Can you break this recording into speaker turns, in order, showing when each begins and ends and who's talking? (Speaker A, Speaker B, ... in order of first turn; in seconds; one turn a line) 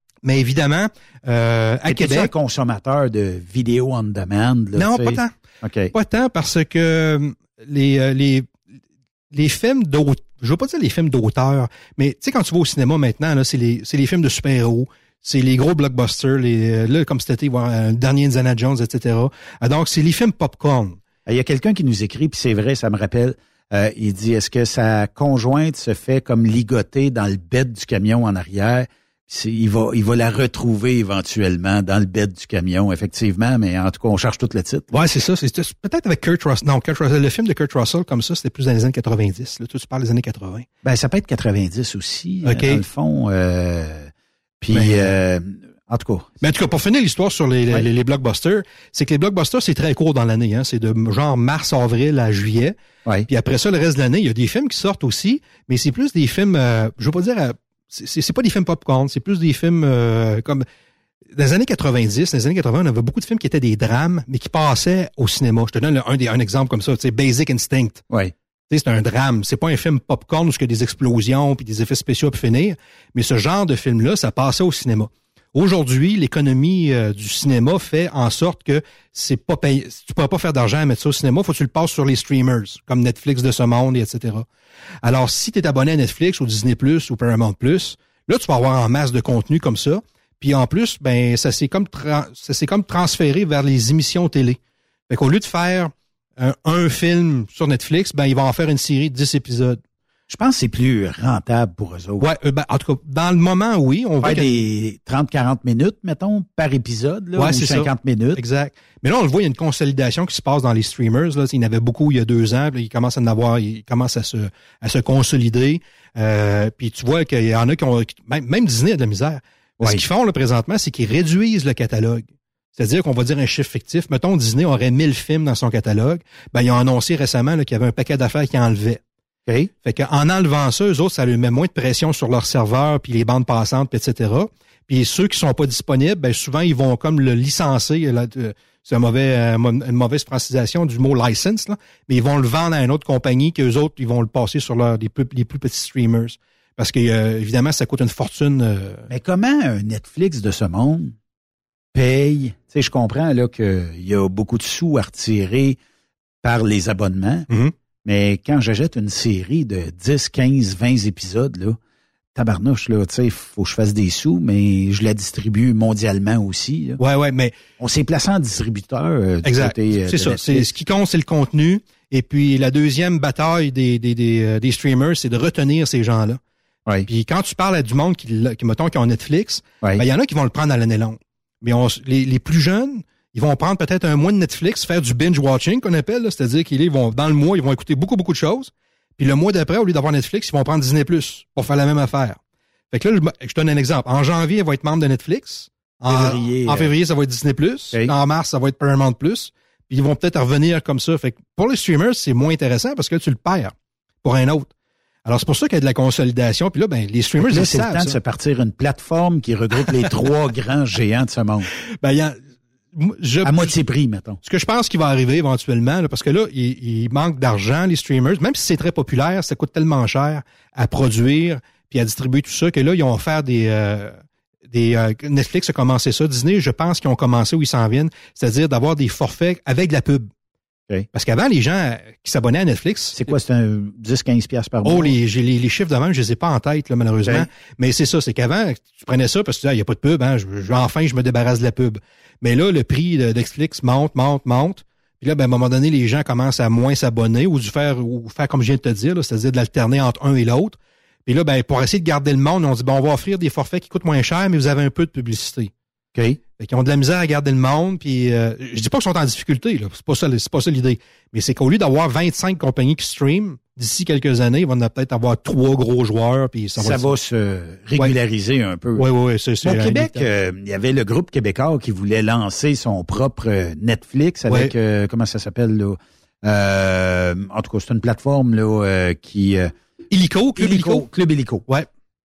Speaker A: 0.2-2.3
Speaker B: 1.9-5.9
Speaker A: 4.7-5.3
Speaker A: 5.9-8.5
Speaker A: 9.3-21.0
Speaker B: 21.3-34.9
Speaker A: 34.9-40.7
Speaker B: 40.8-46.3
Speaker A: 42.4-42.8
Speaker A: 44.7-45.1
Speaker A: 46.4-52.8
Speaker A: 53.3-60.6
Speaker A: 61.3-68.0
Speaker A: 68.7-84.5
Speaker A: 85.0-94.6
Speaker A: 95.1-99.8
Speaker B: 100.3-102.3
Speaker A: 102.2-104.6
Speaker B: 104.2-108.4
Speaker A: 107.3-129.0
Speaker B: 119.8-120.0
Speaker B: 129.4-129.7
Speaker A: 129.8-149.1
Speaker B: 149.1-151.1
Speaker B: 151.9-155.8
Speaker B: 156.4-157.5
Speaker B: 158.1-161.8
Speaker B: 162.3-167.0
Speaker A: 167.0-167.5
Speaker B: 167.8-170.7
Speaker A: 169.4-176.4
Speaker A: 177.1-192.4
Speaker A: 192.9-204.7
Speaker B: 196.1-196.9
Speaker A: 205.3-208.2
Speaker B: 207.4-211.7
Speaker A: 212.0-212.4
Speaker A: 212.9-213.7
Speaker B: 213.4-214.4
Speaker A: 214.4-230.3
Speaker A: 231.1-233.2
Speaker B: 233.1-235.1
Speaker A: 234.8-255.7
Speaker B: 237.2-237.5
Speaker B: 256.1-256.4
Speaker A: 256.6-267.1
Speaker B: 266.8-269.1
Speaker A: 269.0-270.2
Speaker B: 269.6-279.7
Speaker A: 280.1-281.1
Speaker B: 280.6-281.6